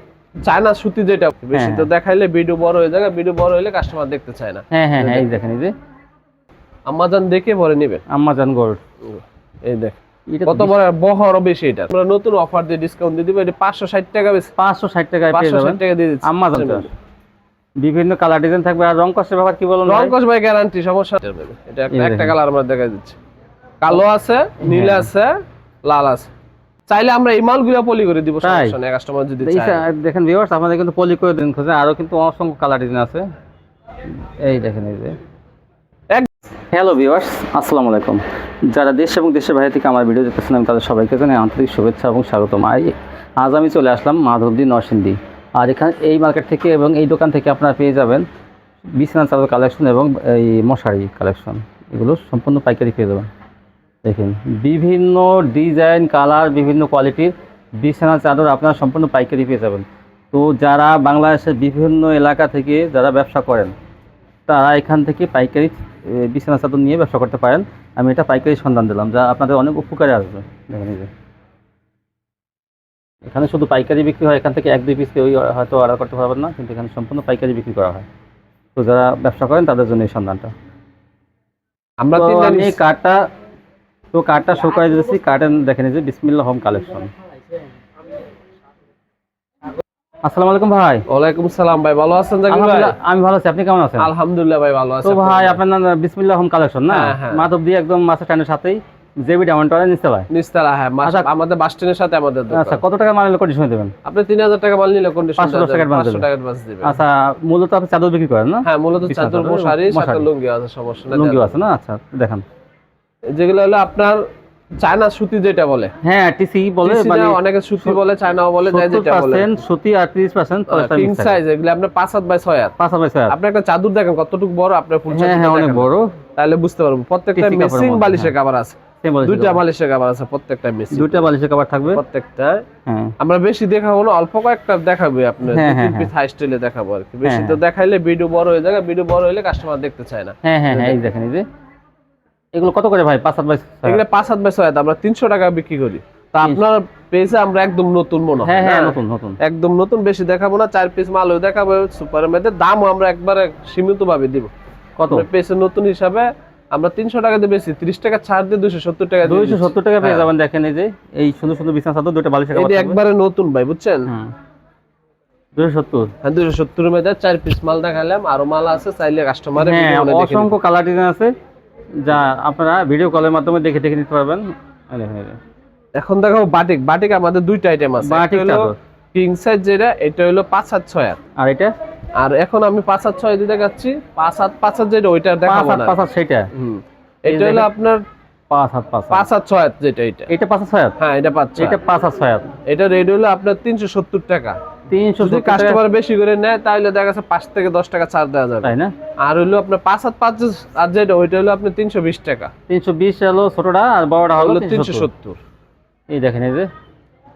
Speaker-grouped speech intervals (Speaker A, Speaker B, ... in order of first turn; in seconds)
Speaker A: 0.4-5.3, 6.9-8.0, 9.0-14.5, 15.3-16.9, 19.9-23.2, 23.8-26.3, 26.9-29.9, 82.0-82.8, 91.1-92.9, 94.0-95.6, 96.9-97.5, 100.3-102.8, 104.0-107.0, 108.7-111.6, 113.3-114.2, 114.8-115.9, 116.8-119.6, 120.7-122.8, 123.3-131.3, 131.9-132.7, 133.2-140.9, 143.8-154.5, 155.1-160.3, 162.5-164.1, 166.2-170.5, 176.0-181.2, 182.2-186.0, 186.5-188.0, 189.1-190.3, 191.0-191.8, 192.7-194.6, 195.2-202.5, 204.4-205.4
Speaker B: 1.5-1.9, 4.7-5.7, 8.1-8.8, 10.3-10.8, 14.6-16.9, 17.8-20.1, 21.9-22.4, 24.6-25.1, 28.4-28.8, 29.4-33.2, 34.4-35.2, 36.7-48.2, 48.9-53.3, 54.0-63.7, 64.5-71.1, 73.3-78.1, 78.8-80.5, 82.2-83.2, 84.1-87.1, 90.2-91.0, 92.5-94.1, 95.0-100.3, 102.5-103.9, 105.4-106.3, 106.8-110.3, 111.1-112.4, 116.0-118.0, 118.6-121.4, 122.8-123.3, 125.1-126.1, 127.3-128.3, 129.0-129.6, 130.9-132.0, 132.9-133.1, 135.5-136.1, 137.2-137.6, 140.4-141.4, 142.6-144.0, 148.4-149.4, 155.0-155.3, 159.2-163.0, 164.1-164.3, 165.6-166.1, 169.6-171.3, 172.0-175.4, 178.0-178.8, 181.4-181.7, 185.5-186.5, 187.3-187.7, 188.5-189.3, 190.3-191.0, 191.6-192.5, 194.9-195.8, 198.6-198.9, 202.7-205.1, 206.1-206.7